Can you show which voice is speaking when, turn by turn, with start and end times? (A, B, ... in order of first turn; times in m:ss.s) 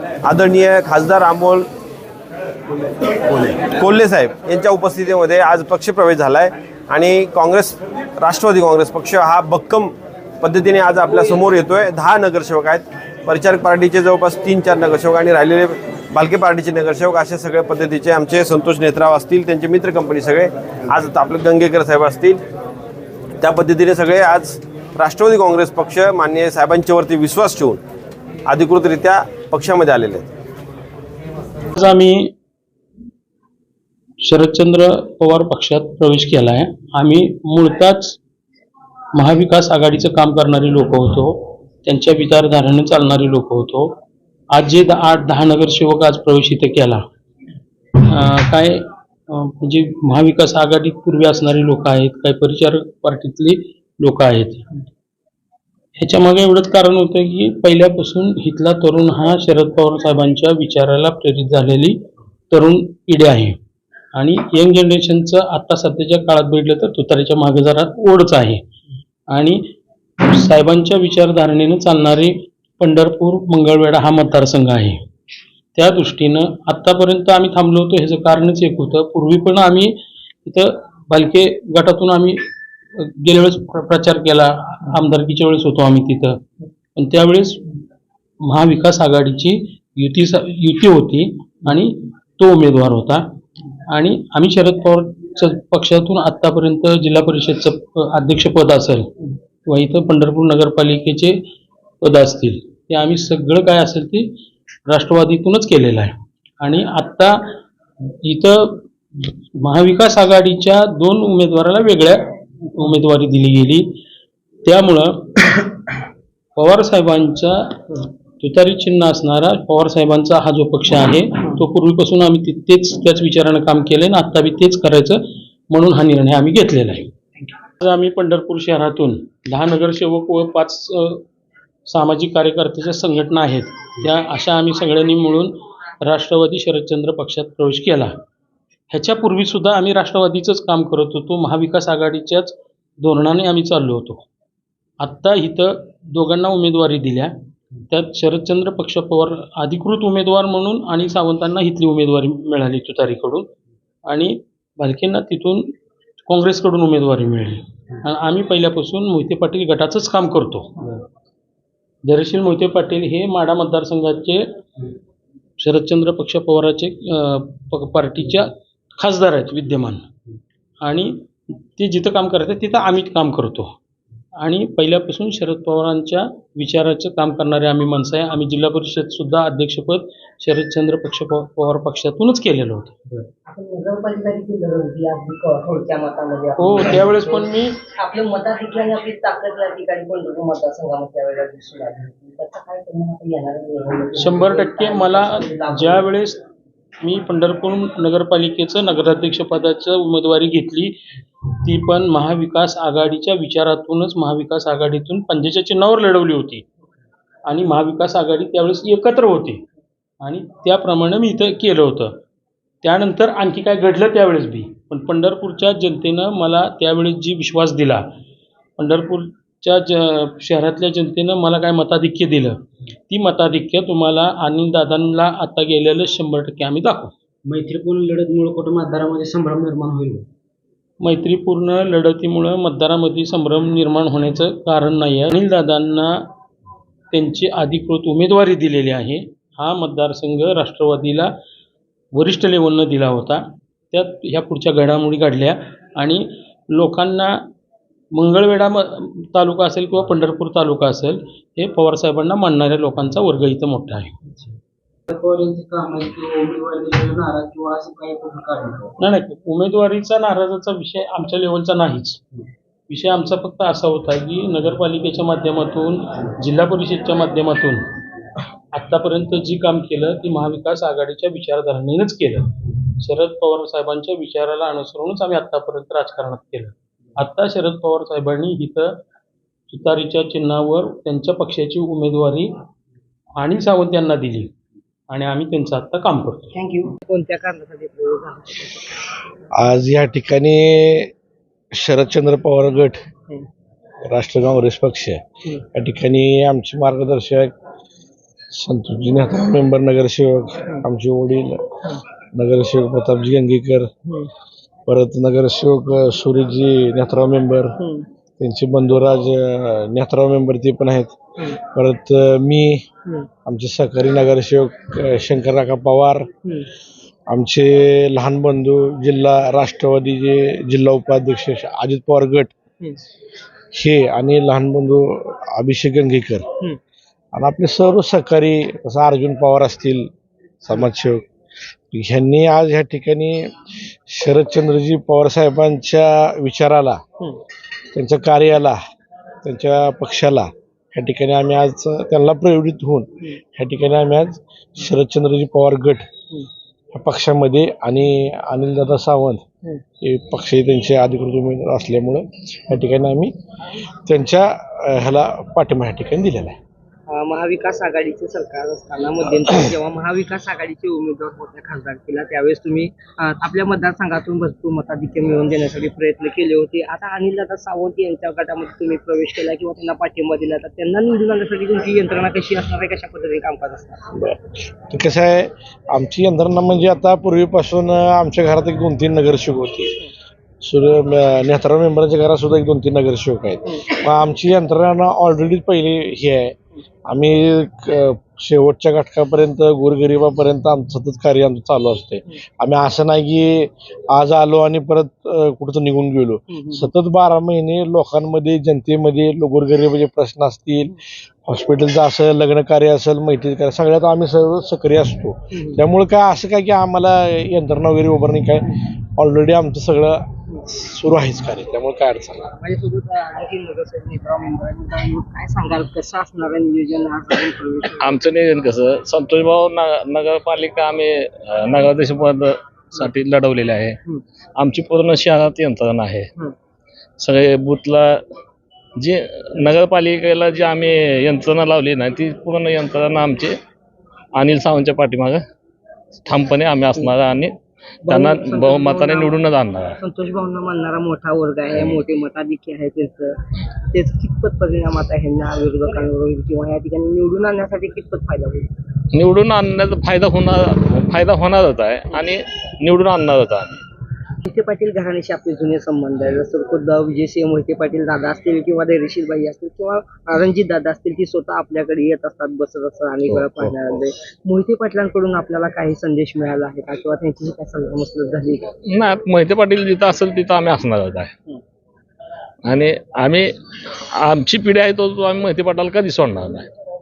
0:00.2-0:01.7 A
0:03.2-0:22.4 A
0:23.4-0:27.8 A
0:28.4-0:30.3 A
0:31.7-0:32.3 B
0:34.2-0:38.2 B
0:39.1-0:44.0 B
0:44.5-0:47.0 B
0:48.0-0:54.7 B
0:56.0-1:02.0 B
1:02.5-1:03.6 B
1:04.1-1:08.6 B
1:09.3-1:09.6 B
1:10.2-1:15.0 B
1:15.8-1:22.4 B
1:22.9-1:26.4 B
1:27.0-1:27.7 B
1:28.4-1:33.2 B
1:33.9-1:39.1 B
1:39.6-1:41.4 B
1:42.0-1:44.3 B
1:44.9-1:47.4 B
1:48.2-1:53.8 B
1:54.6-1:55.7 B
1:56.6-2:11.2 B
2:11.9-2:18.1 B
2:18.9-2:24.2 B
2:25.0-2:27.3 B
2:27.9-2:33.5 B
2:34.1-2:35.7 B
2:36.2-2:41.0 B
2:42.0-2:44.4 B
2:45.6-2:50.1 B
2:50.8-2:53.7 B
2:54.4-3:03.2 B
3:03.4-3:16.0 C
3:06.6-3:07.8 B
3:14.2-3:16.4 B
3:17.0-3:21.0 B
3:21.6-3:26.6 B
3:27.4-3:29.6 B
3:30.2-3:32.2 B
3:32.8-3:38.0 B
3:38.8-3:42.6 B
3:43.1-3:47.1 B
3:47.4-3:50.3 D
3:51.0-3:56.3 B
3:57.1-4:01.3 B
4:02.1-4:07.5 B
4:08.1-4:14.2 B
4:15.1-4:18.9 D
4:19.0-4:22.2 B
4:22.9-4:27.8 B
4:28.7-4:39.0 B
4:39.7-4:42.5 B
4:43.4-4:44.5 B
4:45.1-4:46.5 B
4:46.5-4:48.9 C
4:49.5-4:51.1 E
4:51.7-4:53.0 E
4:54.0-4:55.2 E
4:55.7-4:57.5 E
4:58.5-5:01.8 E
5:02.3-5:03.9 E
5:04.9-5:07.8 E
5:07.8-5:08.1 C
5:08.4-5:12.8 E
5:13.4-5:16.3 E
5:16.4-5:16.7 C
5:17.3-5:22.5 E
5:23.7-5:26.5 E
5:27.3-5:30.1 E
5:30.6-5:31.2 E
5:31.9-5:37.0 E
5:37.9-5:38.8 E
5:39.4-5:46.1 E
5:46.9-5:49.4 E
5:50.0-5:53.3 E
5:54.0-5:56.6 E
5:57.1-6:14.0 C
6:14.1-6:20.0 E
6:20.6-6:26.5 E
6:27.1-6:52.5 E
6:36.5-6:36.9 C
6:45.5-6:45.8 C
6:52.5-6:58.0 C
6:58.0-7:04.0 F
7:04.6-7:06.3 F
7:07.2-7:08.2 F
7:09.0-7:13.5 F
7:14.4-7:15.4 F
7:16.2-7:20.0 F
7:18.1-7:19.3 C
7:20.0-7:23.4 C
7:23.9-7:28.7 C
7:29.1-7:33.8 F
7:34.4-7:48.7 C
7:48.9-7:51.3 F
7:52.6-7:53.5 F
7:54.2-7:56.7 F